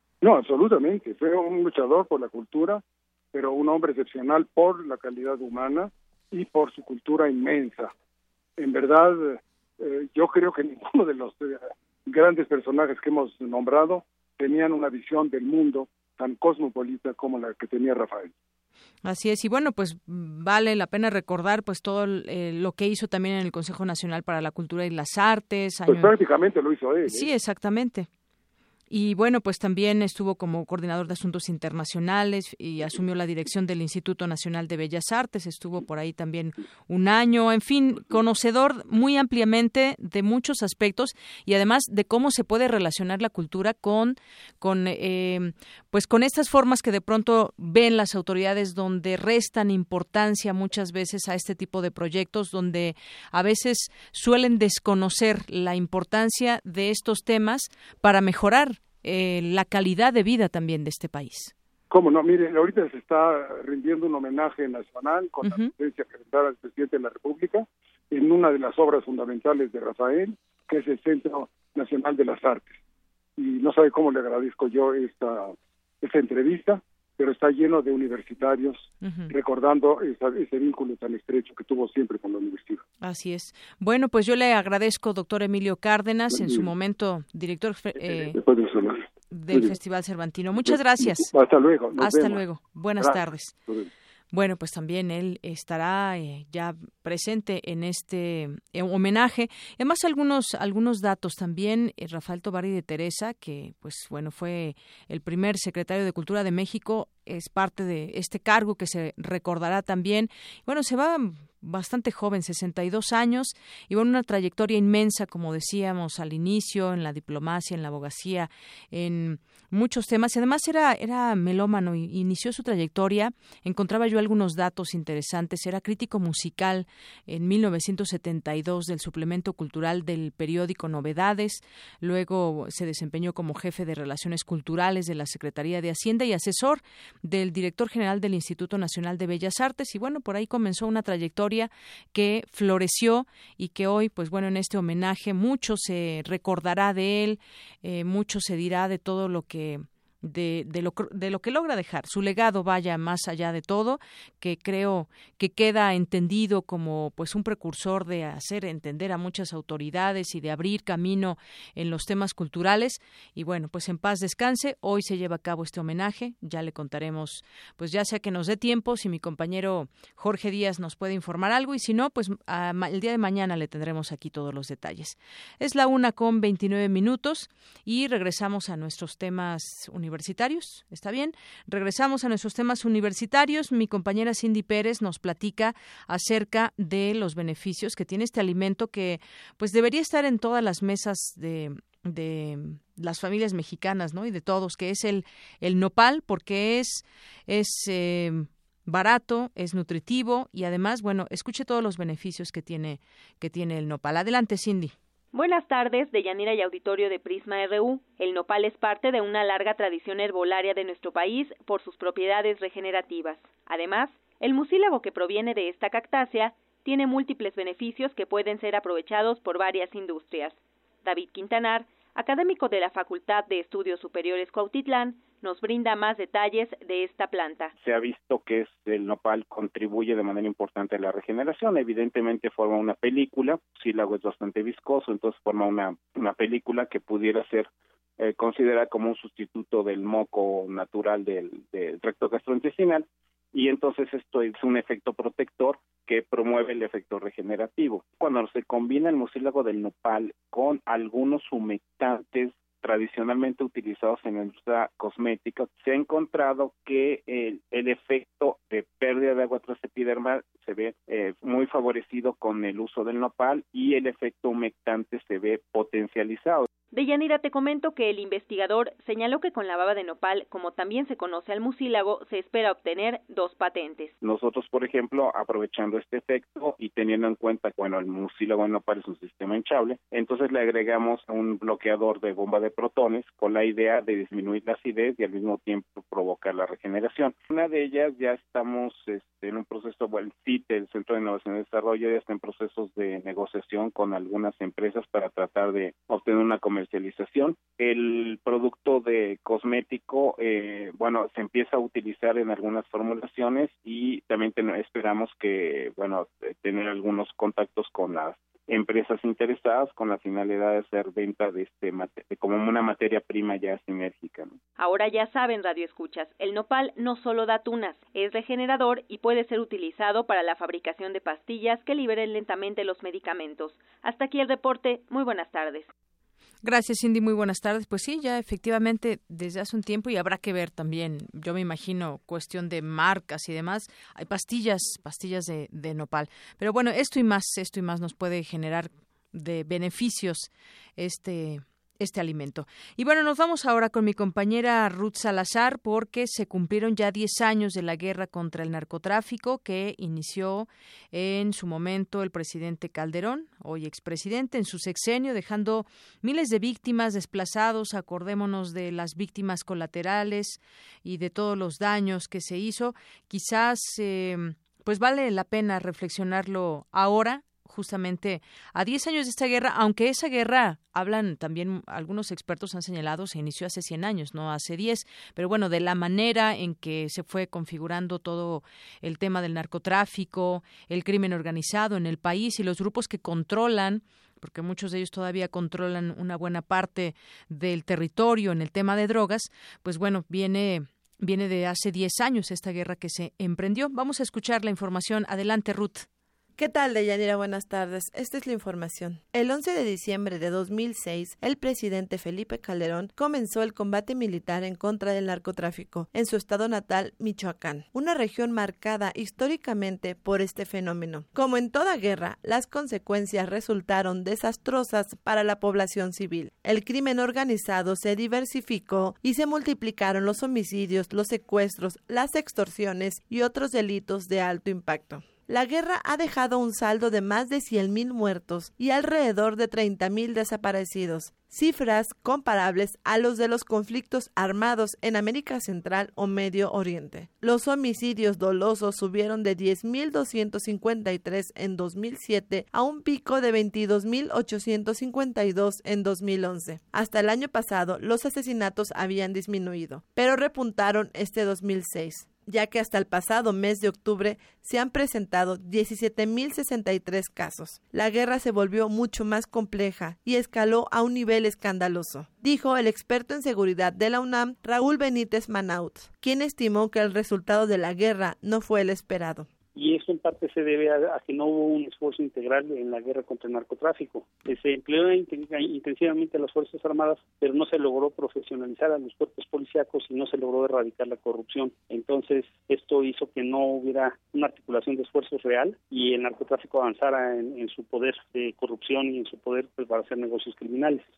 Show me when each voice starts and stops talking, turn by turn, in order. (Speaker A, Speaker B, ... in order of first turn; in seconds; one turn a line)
Speaker A: 0.2-2.8
Speaker A: 3.3-7.9
Speaker A: 8.6-18.3
Speaker B: 19.0-26.1
Speaker A: 25.9-27.3
Speaker B: 27.1-28.1
Speaker B: 28.9-61.5
Speaker A: 61.9-72.8
Speaker B: 65.4-65.7
Speaker A: 73.4-82.8
Speaker B: 79.0-79.3
Speaker B: 83.0-88.4
Speaker A: 86.3-86.7
Speaker A: 88.0-89.7
Speaker B: 89.3-91.3
Speaker A: 90.6-92.4
Speaker B: 92.0-93.5
Speaker A: 93.0-93.9
Speaker B: 94.3-204.9
Speaker C: 205.3-227.7
Speaker D: 227.8-266.7
Speaker C: 266.9-274.1
Speaker D: 274.2-314.6
Speaker C: 314.8-325.9
Speaker B: 326.6-396.1
Speaker E: 396.6-469.5
Speaker F: 469.7-491.0